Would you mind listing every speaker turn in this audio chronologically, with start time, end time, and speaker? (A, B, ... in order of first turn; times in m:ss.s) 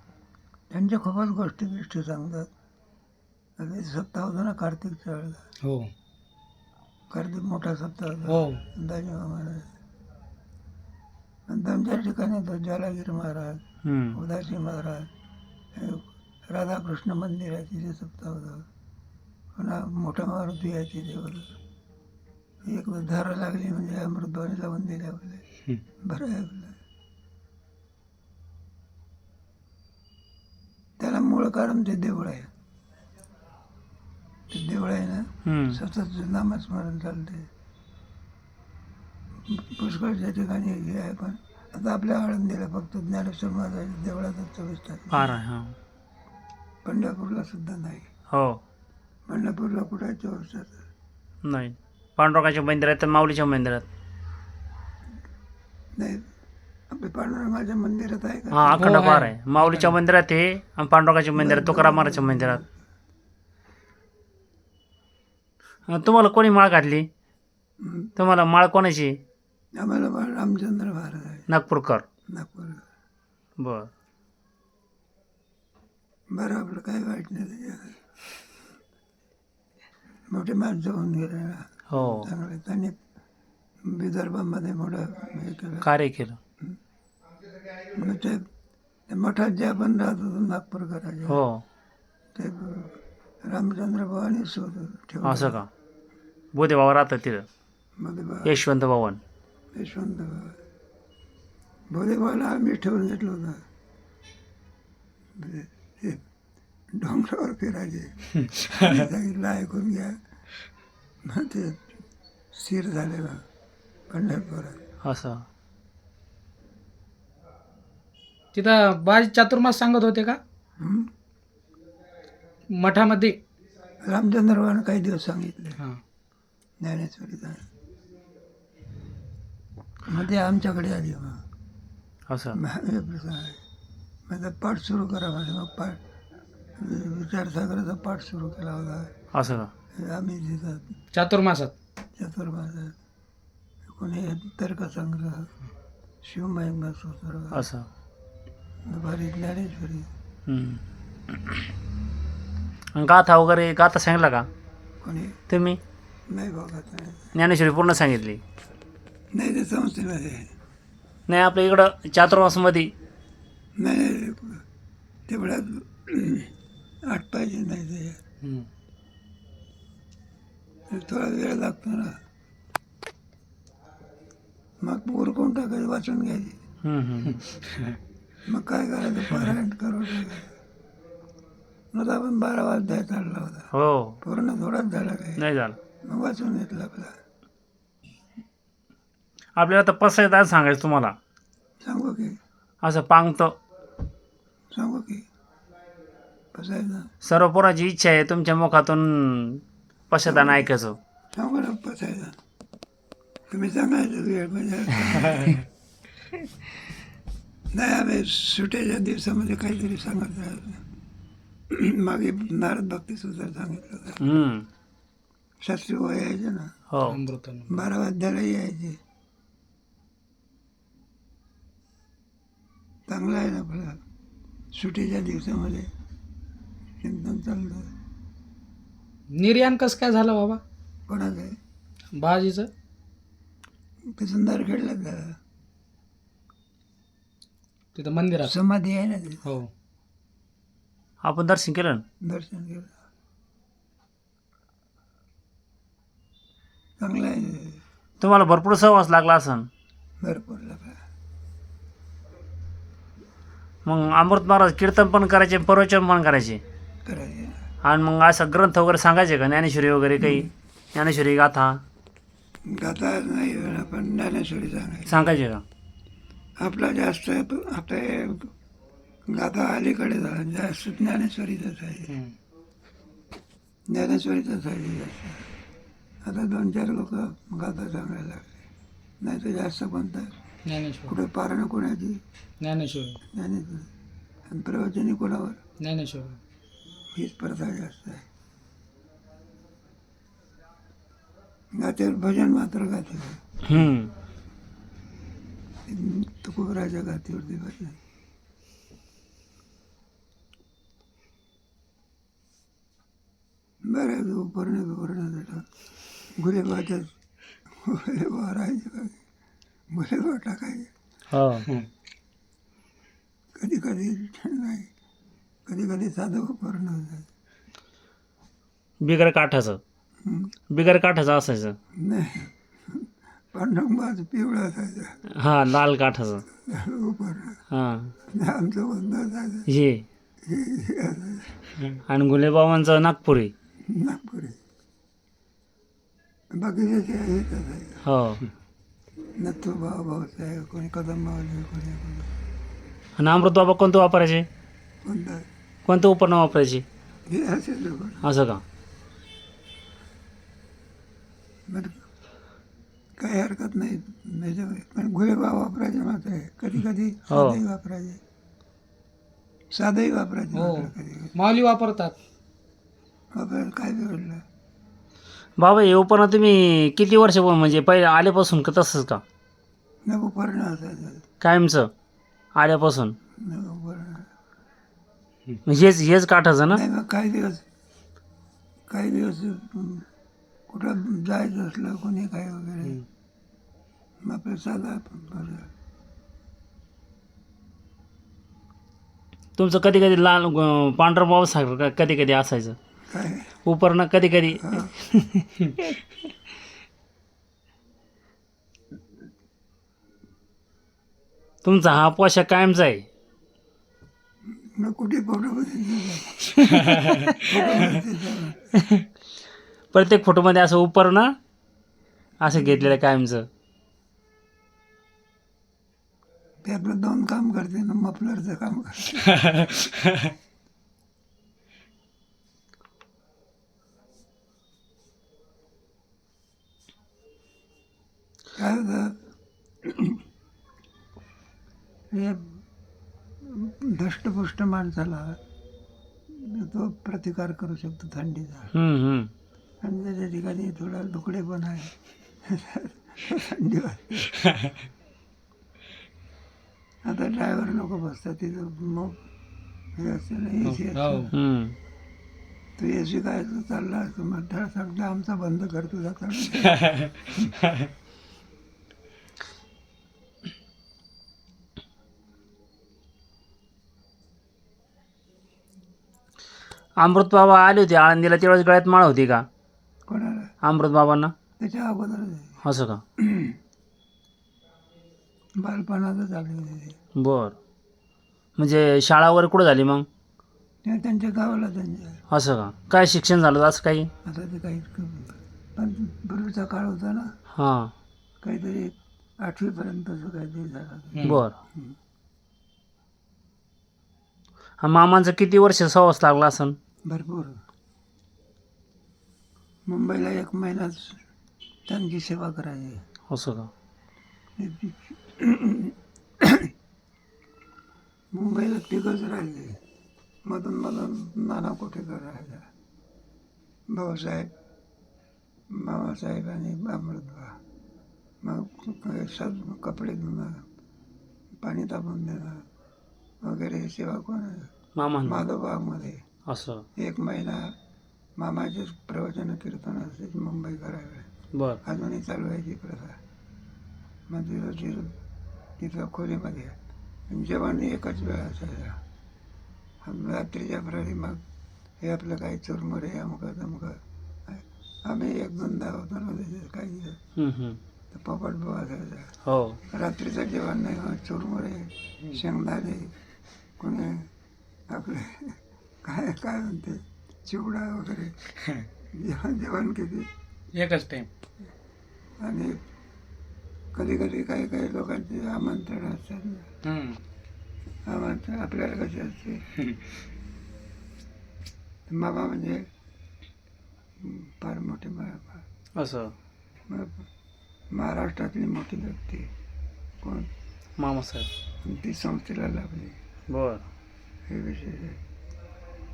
0:00.7-0:02.5 A
0:03.6-0:05.5 A
0:05.6-0:05.9 B
0:07.1-0:09.7 A
0:08.3-0:08.6 B
0:11.5-0:15.1 A
0:13.8-0:14.2 C
0:15.8-0:18.7 A
0:19.6-0:21.6 A
0:22.6-0:25.4 A
0:26.0-0:26.8 A
0:31.0-0:32.5 A
0:34.5-0:37.5 A
0:35.4-0:35.8 C
0:39.5-0:45.4 A
0:45.1-0:45.8 C
0:46.8-0:48.1 A
0:48.3-0:48.6 C
0:49.3-0:50.8 A
0:51.4-0:53.9 C
0:56.0-0:56.3 A
0:56.9-0:58.9 A
0:58.5-1:02.6 C
0:58.8-0:59.9 B
1:01.4-1:02.7 A
1:05.9-1:07.1 C
1:07.8-1:08.1 A
1:08.2-1:09.2 C
1:09.8-1:11.5 A
1:11.5-1:12.1 C
1:12.3-1:12.8 A
1:13.6-1:13.9 C
1:16.3-1:18.0 A
1:20.3-1:23.0 A
1:21.9-1:22.3 C
1:23.8-1:25.9 A
1:25.8-1:26.4 C
1:27.9-1:28.5 A
1:29.1-1:31.4 A
1:31.3-1:31.7 C
1:32.4-1:35.6 A
1:35.2-1:35.7 C
1:36.5-1:37.5 C
1:38.0-1:38.6 A
1:38.4-1:39.2 C
1:39.7-1:40.6 A
1:41.9-1:43.6 A
1:45.4-1:46.2 A
1:46.9-1:50.2 A
1:48.4-1:49.0 B
1:51.2-1:51.8 A
1:52.5-1:53.4 A
1:54.1-1:54.8 A
1:55.0-1:55.5 C
1:58.5-2:00.4 B
2:00.8-2:01.1 A
2:02.7-2:03.4 B
2:04.0-2:05.8 A
2:06.8-2:07.7 A
2:10.0-2:11.4 A
2:12.3-2:12.6 C
2:12.5-2:13.6 A
2:14.3-2:16.0 A
2:16.8-2:19.1 A
2:19.3-2:19.7 C
2:19.9-2:21.0 A
2:21.1-2:21.7 B
2:22.2-2:23.0 A
2:23.9-2:25.5 A
2:26.2-2:27.7 A
2:27.5-2:27.9 C
2:28.9-2:30.1 A
2:30.5-2:31.7 C
2:33.0-2:34.5 C
2:35.0-2:35.4 A
2:35.5-2:35.8 C
2:36.3-2:37.3 A
2:37.4-2:38.4 C
2:39.3-2:40.5 A
2:41.3-2:42.9 C
2:43.8-2:44.6 A
2:45.3-2:46.5 A
2:47.1-2:48.2 A
2:48.4-2:48.7 B
2:50.9-2:52.2 A
2:54.8-2:56.6 A
2:56.8-2:57.4 C
2:57.2-2:58.0 B
2:58.5-3:00.5 A
3:01.9-3:03.7 A
3:03.7-3:04.2 C
3:04.2-3:05.4 A
3:05.4-3:05.8 C
3:06.0-3:07.2 A
3:09.6-3:11.2 C
3:11.8-3:12.4 A
3:12.8-3:13.6 C
3:14.7-3:15.3 A
3:16.5-3:17.1 A
3:17.2-3:21.0 C
3:20.2-3:20.7 A
3:21.4-3:22.4 A
3:23.5-3:25.6 A
3:27.7-3:30.8 A
3:31.7-3:34.2 A
3:34.2-3:34.7 C
3:35.6-3:36.7 A
3:36.9-3:37.2 C
3:37.1-3:37.9 B
3:37.7-3:39.0 A
3:43.1-3:44.0 A
3:44.7-3:45.9 A
3:47.0-3:47.9 A
3:49.3-3:50.6 B
3:51.1-3:51.6 A
3:52.1-3:52.7 B
3:54.1-3:55.4 A
3:58.0-3:58.5 B
3:58.4-3:59.4 A
4:01.2-4:02.0 C
4:02.2-4:02.9 A
4:07.0-4:07.8 A
4:08.2-4:09.7 C
4:10.2-4:11.0 A
4:13.8-4:16.6 C
4:17.0-4:17.7 A
4:17.8-4:21.8 C
4:20.2-4:20.5 A
4:22.7-4:25.2 A
4:25.1-4:25.6 C
4:26.6-4:28.5 A
4:29.3-4:32.2 A
4:32.1-4:32.4 B
4:33.9-4:35.5 A
4:36.2-4:38.6 A
4:39.2-4:40.3 A
4:40.7-4:41.2 B
4:41.1-4:42.2 A
4:42.6-4:43.2 B
4:43.3-4:43.9 A
4:44.5-4:45.6 A
4:45.8-4:46.4 B
4:47.2-4:48.3 A
4:51.7-4:53.8 A
4:53.6-4:54.1 C
4:55.9-4:58.0 A
5:03.8-5:05.7 A
5:06.4-5:07.1 A
5:07.8-5:09.2 A
5:09.9-5:10.9 A
5:11.3-5:11.7 C
5:13.6-5:14.9 A
5:15.7-5:17.3 A
5:19.0-5:19.8 C
5:20.2-5:20.5 A
5:20.7-5:21.8 C
5:22.0-5:25.2 A
5:25.3-5:26.4 C
5:26.6-5:27.6 A
5:27.7-5:28.1 C
5:28.3-5:29.7 A
5:29.7-5:30.1 C
5:30.5-5:31.7 A
5:32.1-5:33.5 C
5:33.9-5:34.6 A
5:36.5-5:38.1 A
5:38.1-5:38.4 C
5:39.4-5:42.3 A
5:43.2-5:44.5 C
5:45.0-5:45.4 A
5:45.9-5:46.8 C
5:47.3-5:48.2 A
5:48.2-5:48.6 C
5:51.7-5:52.0 A
5:53.2-5:58.2 A
5:57.3-5:57.6 C
5:59.7-6:01.3 A
6:00.6-6:02.2 B
6:03.3-6:04.4 A
6:05.6-6:09.2 C
6:10.1-6:11.2 A
6:11.4-6:11.9 C
6:12.6-6:13.2 C
6:13.4-6:14.3 A
6:15.7-6:16.8 C
6:16.7-6:17.6 A
6:18.9-6:20.1 A
6:20.7-6:23.0 A
6:24.2-6:25.7 A
6:29.6-6:32.8 C
6:33.1-6:33.6 A
6:33.6-6:36.0 C
6:34.6-6:34.9 A
6:41.6-6:43.1 C
6:44.5-6:48.6 A
6:48.7-6:49.1 C
6:49.9-6:51.4 C
6:52.4-6:53.5 C
6:56.6-6:59.4 A
6:59.3-7:00.3 B
7:08.6-7:09.2 A
7:09.8-7:10.2 A
7:12.1-7:12.6 A
7:13.4-7:15.4 A
7:16.3-7:18.7 A
7:18.7-7:19.3 C
7:19.8-7:24.4 A
7:24.4-7:24.8 B
7:27.1-7:29.2 A
7:30.0-7:31.3 A
7:30.6-7:31.3 B
7:31.3-7:31.8 C
7:32.8-7:37.0 A
7:36.6-7:37.9 B
7:47.0-7:49.5 C
7:50.1-7:50.5 A
7:50.6-7:51.3 C
7:51.6-7:52.6 A
7:52.6-7:53.0 C
7:53.2-7:53.6 A
7:55.6-7:57.0 A
7:57.2-7:57.6 C
7:58.6-8:00.1 C
8:00.8-8:02.2 A
8:02.3-8:04.1 C
8:04.2-8:07.3 A
8:07.5-8:07.9 C
8:08.4-8:12.0 A
8:11.2-8:11.4 B
8:11.2-8:11.6 C
8:14.8-8:16.8 C
8:17.1-8:17.6 A
8:19.9-8:21.2 A
8:21.9-8:23.0 A
8:23.3-8:23.7 C
8:24.6-8:26.7 A
8:28.3-8:29.8 A
8:30.5-8:32.7 A
8:33.9-8:34.5 A
8:35.7-8:37.6 A
8:38.4-8:40.7 A
8:41.6-8:42.7 A
8:43.4-8:44.7 A
8:45.0-8:45.4 C
8:45.2-8:46.2 A
8:46.5-8:46.9 C
8:47.0-8:47.7 A
8:48.4-8:51.3 A
8:51.5-8:51.8 C
8:51.8-8:53.2 A
8:54.3-8:55.1 A
8:55.8-8:56.8 A
8:57.3-8:59.0 A
9:00.0-9:01.4 A
9:02.0-9:07.2 A
9:07.4-9:07.8 C
9:08.1-9:09.3 A
9:09.4-9:09.8 C
9:09.9-9:13.1 A
9:13.8-9:14.3 A
9:14.9-9:18.4 A
9:19.1-9:20.3 A
9:20.8-9:21.3 B
9:22.4-9:22.8 A
9:23.9-9:26.7 A
9:26.8-9:27.2 B
9:28.1-9:29.6 A
9:29.8-9:30.1 B
9:32.1-9:32.9 A
9:34.2-9:35.6 A
9:36.0-9:36.4 C
9:36.9-9:37.2 A
9:37.9-9:39.5 A
9:40.2-9:40.5 A
9:41.0-9:41.5 C
9:41.8-9:43.2 A
9:43.5-9:43.8 C
9:44.5-9:45.2 A